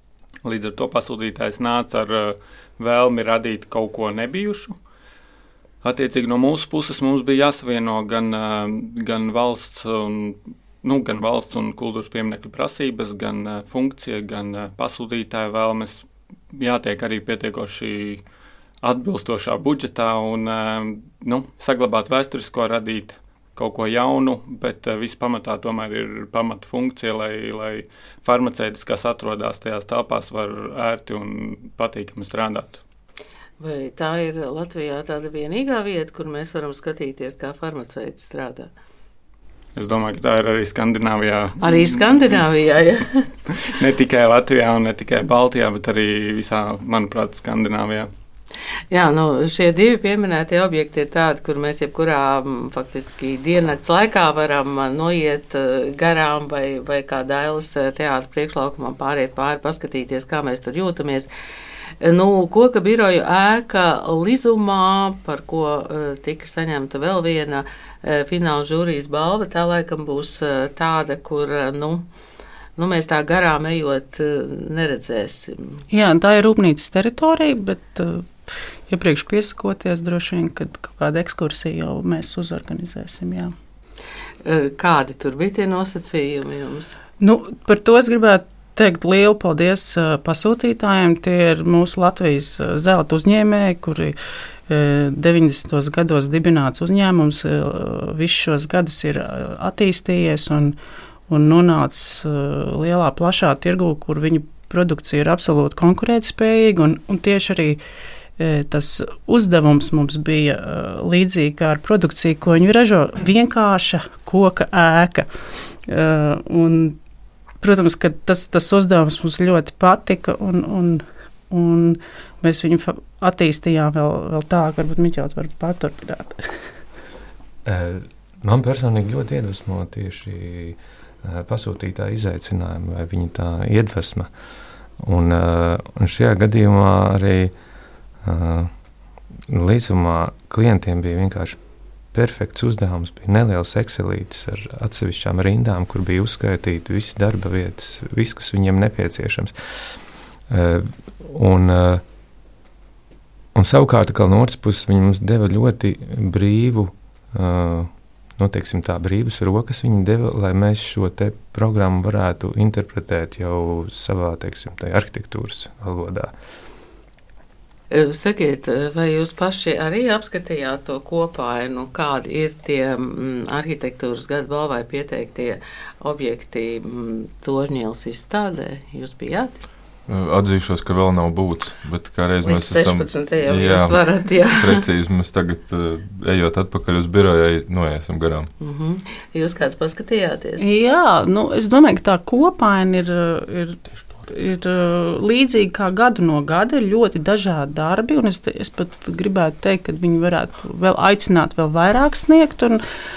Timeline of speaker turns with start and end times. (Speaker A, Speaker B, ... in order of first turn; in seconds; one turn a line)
Speaker A: 0.4-4.8
Speaker A: 5.8-18.2
Speaker A: 18.8-32.8
Speaker B: 33.6-38.7
Speaker A: 39.8-42.1
Speaker B: 41.6-43.1
Speaker A: 43.7-48.1
Speaker B: 48.9-61.3
Speaker B: 62.0-72.0
Speaker B: 72.8-75.8
Speaker C: 75.9-78.3
Speaker C: 78.9-83.5
Speaker B: 84.4-87.0
Speaker C: 87.2-94.2
Speaker C: 94.7-100.8
Speaker C: 101.3-107.8
Speaker C: 108.4-115.3
Speaker C: 115.9-117.0
Speaker C: 117.6-126.4
Speaker D: 127.7-134.3
Speaker D: 135.0-137.5
Speaker D: 138.2-138.7
Speaker D: 139.5-141.6
Speaker D: 142.1-149.6
Speaker D: 150.5-152.0
Speaker D: 153.6-166.3
Speaker B: 167.9-179.6
Speaker E: 180.1-188.5
Speaker B: 182.4-184.9
Speaker B: 188.6-190.6
Speaker C: 190.6-202.8